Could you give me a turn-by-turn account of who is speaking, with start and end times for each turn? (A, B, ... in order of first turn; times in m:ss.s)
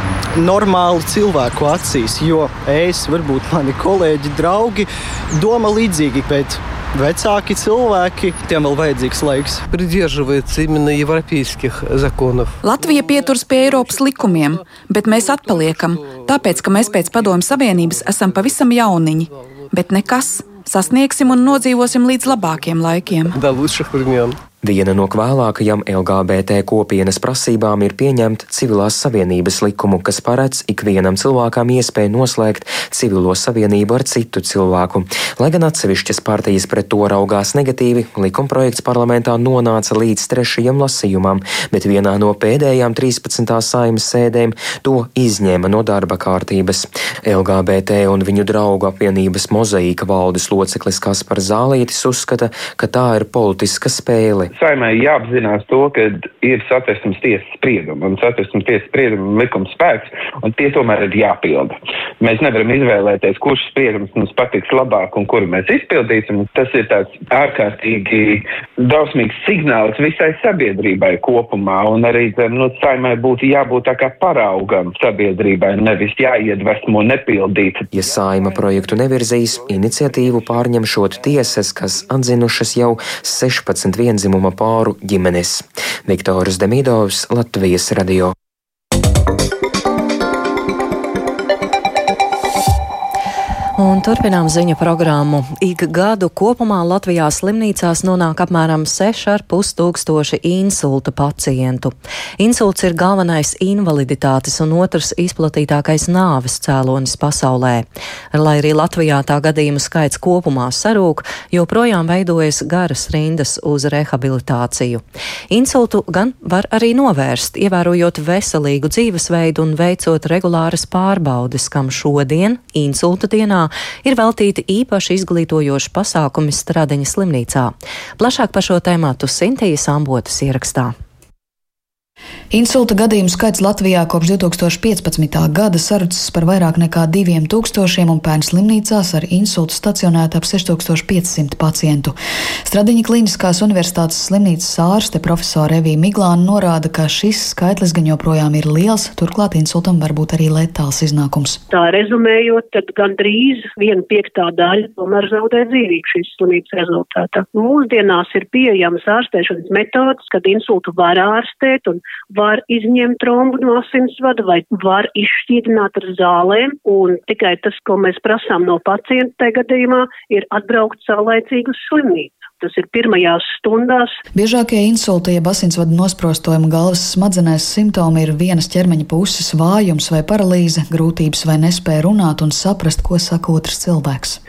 0:00.4-0:09.6 A
0:09.7-0:12.6 B
0:12.6-0:23.4 C
0:14.1-0:14.7 B
0:15.2-0:16.2 B
0:23.3-0:24.4 B
0:24.6-0:54.5 D
0:54.5-1:17.8 E
1:17.9-1:28.3 D
1:33.8-2:10.9 F
2:12.5-2:31.6 G
2:31.7-2:54.2 H
2:54.3-3:04.4 G